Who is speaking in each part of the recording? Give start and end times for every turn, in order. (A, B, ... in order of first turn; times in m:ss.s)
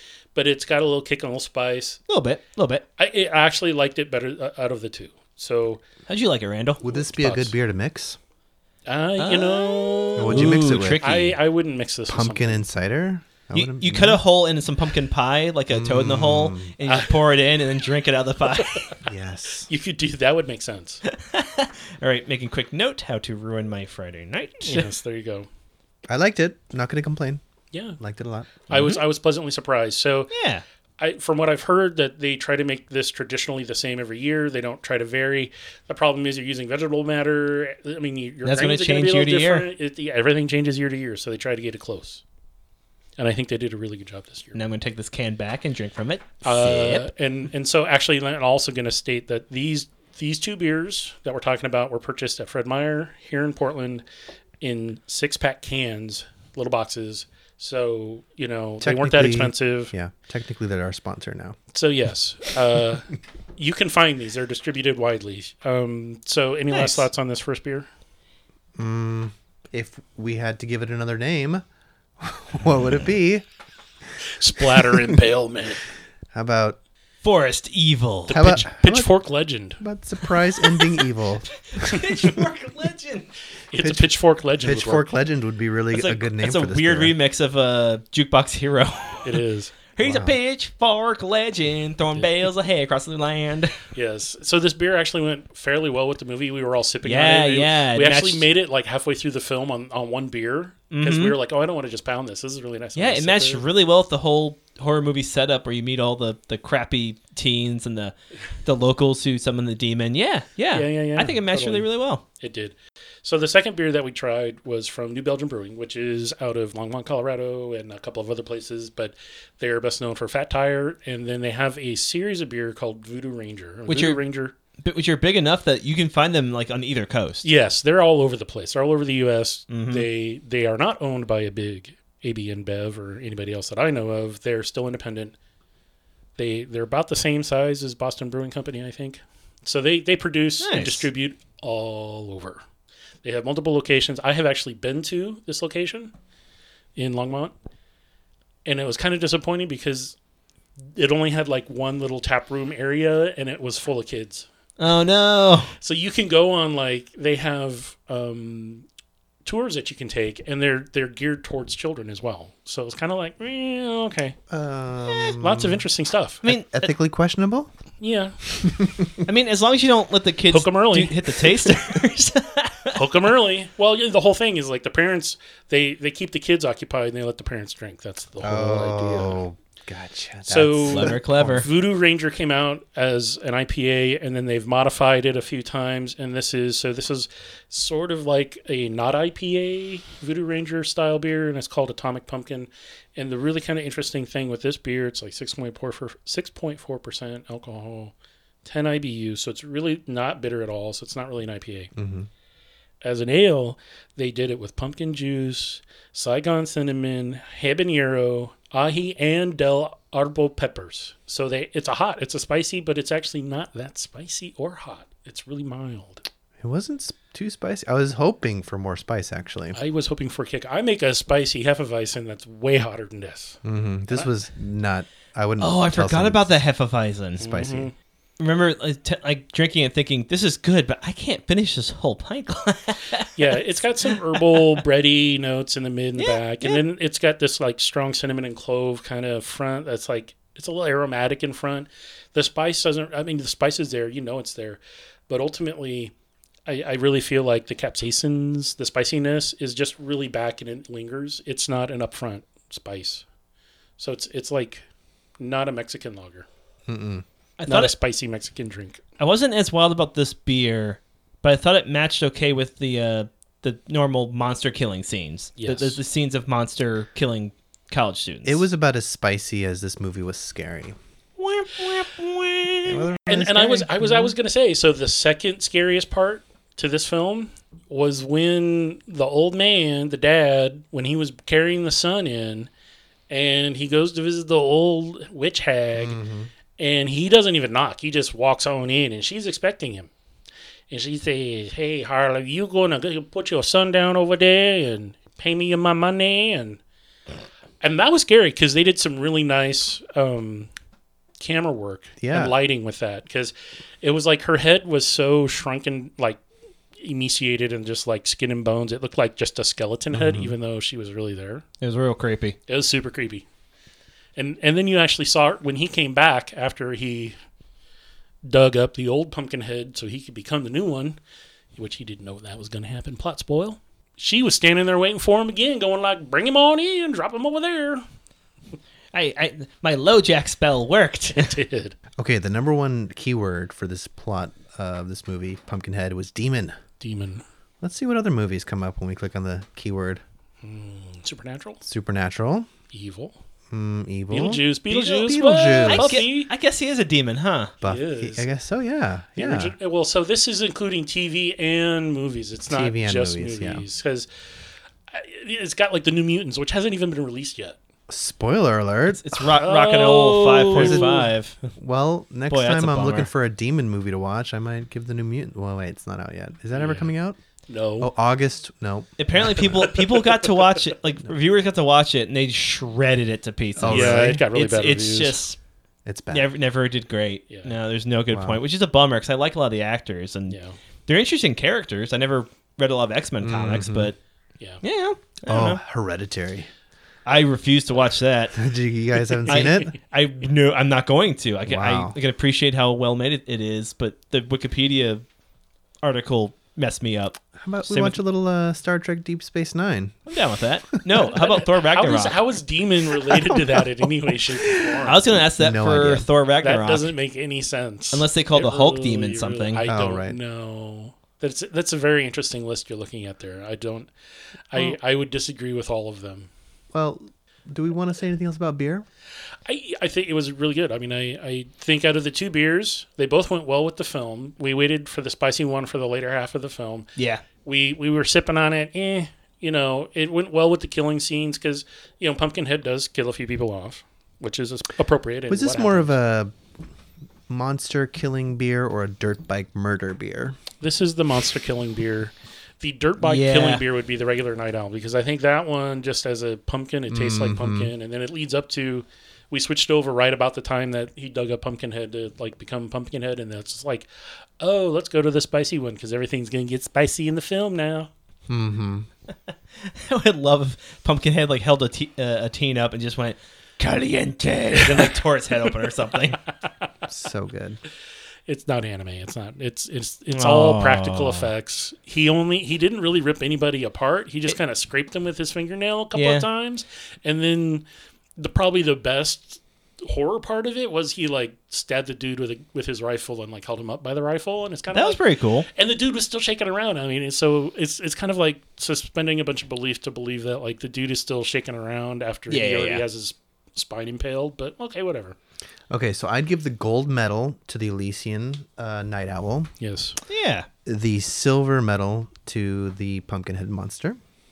0:00.3-0:02.0 A
0:02.1-0:02.8 B
0:03.0-0:05.8 A
0:06.1-0:06.8 B
0:06.8-0:08.2 C
0:06.9-0:07.5 A
0:08.9-0:12.6 A
0:09.2-0:11.4 B
0:10.2-0:11.1 C
0:12.1-0:14.2 C
0:13.5-0:18.9 B
0:15.7-0:16.7 C
0:16.8-0:17.1 A
0:18.6-0:18.9 A
0:19.0-0:19.7 C
0:19.7-0:21.0 A
0:21.0-0:24.9 B
0:24.6-0:25.5 A
0:26.1-0:27.4 C
0:27.7-0:28.0 A
0:28.0-0:29.0 C
0:28.7-0:30.3 A
0:30.3-0:30.6 B
0:31.0-0:42.2 A
0:38.4-0:39.7 B
0:43.2-0:44.6 A
0:44.5-0:47.0 B
0:46.4-0:54.0 A
0:54.6-0:59.9 A
0:58.8-1:01.6 C
1:01.7-1:07.9 A
1:06.7-1:07.0 B
1:08.8-1:11.6 C
1:12.2-1:13.4 C
1:14.2-1:15.8 A
1:14.7-1:15.2 C
1:16.3-1:16.8 C
1:17.2-1:18.6 B
1:18.3-1:19.8 A
1:18.3-1:19.1 C
1:19.8-1:22.0 C
1:21.6-1:23.3 B
1:23.7-1:25.2 A
1:23.8-1:24.1 C
1:24.6-1:27.1 C
1:25.9-1:29.4 B
1:29.2-1:29.7 A
1:29.9-1:33.8 B
1:30.0-1:30.4 C
1:33.9-1:43.6 A
1:37.0-1:38.5 B
1:40.9-1:41.4 B
1:43.0-1:52.2 B
1:50.7-1:51.9 A
1:52.4-2:04.5 A
2:03.9-2:04.2 B
2:04.8-2:07.4 B
2:07.4-2:15.4 A
2:09.7-2:10.1 B
2:16.4-2:22.6 A
2:20.6-2:21.1 B
2:23.2-2:26.1 A
2:27.0-2:27.5 A
2:28.6-2:30.2 A
2:31.0-2:34.5 A
2:34.8-2:35.7 B
2:35.8-2:38.8 A
2:39.4-2:44.4 A
2:44.5-2:45.8 C
2:45.4-2:46.4 A
2:46.4-2:46.9 B
2:46.4-2:47.7 C
2:48.0-2:48.4 A
2:48.5-2:49.2 C
2:49.2-2:53.2 B
2:50.5-2:51.7 A
2:52.9-2:59.4 A
2:58.4-3:01.7 C
3:00.4-3:21.9 A
3:00.9-3:01.7 B
3:22.0-3:22.3 C
3:23.0-3:36.2 A
3:36.6-3:39.8 C
3:39.7-3:43.6 A
3:43.6-3:46.5 C
3:45.6-3:47.4 B
3:47.4-3:47.9 A
3:47.4-3:47.9 C
3:48.4-3:54.8 B
3:53.4-4:06.1 A
3:56.2-3:56.8 B
4:06.6-4:13.2 A
4:14.0-4:14.8 A
4:15.4-4:16.5 A
4:16.9-4:17.2 C
4:17.6-4:17.9 B
4:17.6-4:19.0 A
4:19.2-4:28.6 B
4:25.6-4:26.0 A
4:28.4-4:31.0 C
4:31.4-4:33.1 B
4:32.8-4:34.3 C
4:33.3-4:42.7 A
4:43.3-4:46.2 A
4:46.0-4:46.5 C
4:46.8-4:50.1 A
4:50.9-4:56.8 A
4:57.8-5:00.7 A
5:01.4-5:06.4 A
5:02.2-5:02.5 C
5:07.0-5:11.6 A
5:10.1-5:10.6 C
5:11.8-5:12.6 B
5:12.7-5:13.4 A
5:14.4-5:17.4 A
5:18.4-5:21.2 A
5:21.8-5:28.0 A
5:29.1-5:31.5 B
5:31.4-5:32.0 A
5:32.2-5:36.8 C
5:37.0-5:37.4 A
5:37.8-5:40.2 C
5:40.6-5:41.8 A
5:41.8-5:42.7 C
5:42.9-5:43.4 A
5:43.7-5:46.2 C
5:44.3-5:46.5 A
5:45.9-5:47.7 B
5:47.8-5:49.7 C
5:47.8-5:48.5 A
5:49.4-5:54.3 A
5:52.7-5:53.8 C
5:55.1-5:57.8 A
5:58.1-5:59.2 C
5:59.1-6:01.7 B
5:59.4-6:01.3 A
6:00.7-6:01.3 C
6:01.8-6:07.4 C
6:02.5-6:03.3 B
6:06.7-6:07.1 A
6:07.7-6:08.1 A
6:08.0-6:09.6 C
6:09.2-6:15.6 B
6:09.6-6:10.5 A
6:13.8-6:14.4 C
6:13.8-6:15.4 A
6:16.0-6:16.5 C
6:16.3-6:24.2 B
6:17.5-6:17.7 A
6:18.3-6:18.6 C
6:20.5-6:20.8 A
6:23.4-6:24.1 C
6:24.8-6:25.8 B
6:25.4-6:26.7 C
6:27.2-6:28.6 B
6:28.5-6:30.0 C
6:29.5-6:35.2 B
6:31.6-6:32.1 C
6:36.0-6:38.2 B
6:37.5-6:40.2 C
6:40.2-6:42.4 B
6:41.0-6:41.3 C
6:41.9-6:45.4 A
6:43.3-6:43.8 C
6:45.0-6:47.1 B
6:45.5-6:46.3 C
6:46.6-6:54.1 A
6:48.1-6:49.8 B
6:49.8-6:50.4 C
6:54.7-6:56.5 A
6:56.9-6:59.0 C
6:59.6-7:07.1 A
7:07.2-7:07.4 B
7:07.6-7:16.1 A
7:15.5-7:16.5 C
7:17.5-7:20.6 C
7:20.8-7:34.1 A
7:23.2-7:23.8 B
7:27.1-7:27.9 C
7:34.6-7:38.1 A
7:38.5-7:39.1 C
7:39.8-7:46.4 B
7:44.8-7:45.2 A
7:47.1-7:47.8 C
7:48.5-7:57.8 A
7:50.3-7:51.5 B
7:56.1-7:56.4 B
7:58.4-8:15.4 A
8:04.9-8:05.7 B
8:12.5-8:13.0 B
8:15.9-8:19.7 C
8:19.8-8:20.2 A
8:20.3-8:20.7 B
8:20.8-8:24.2 C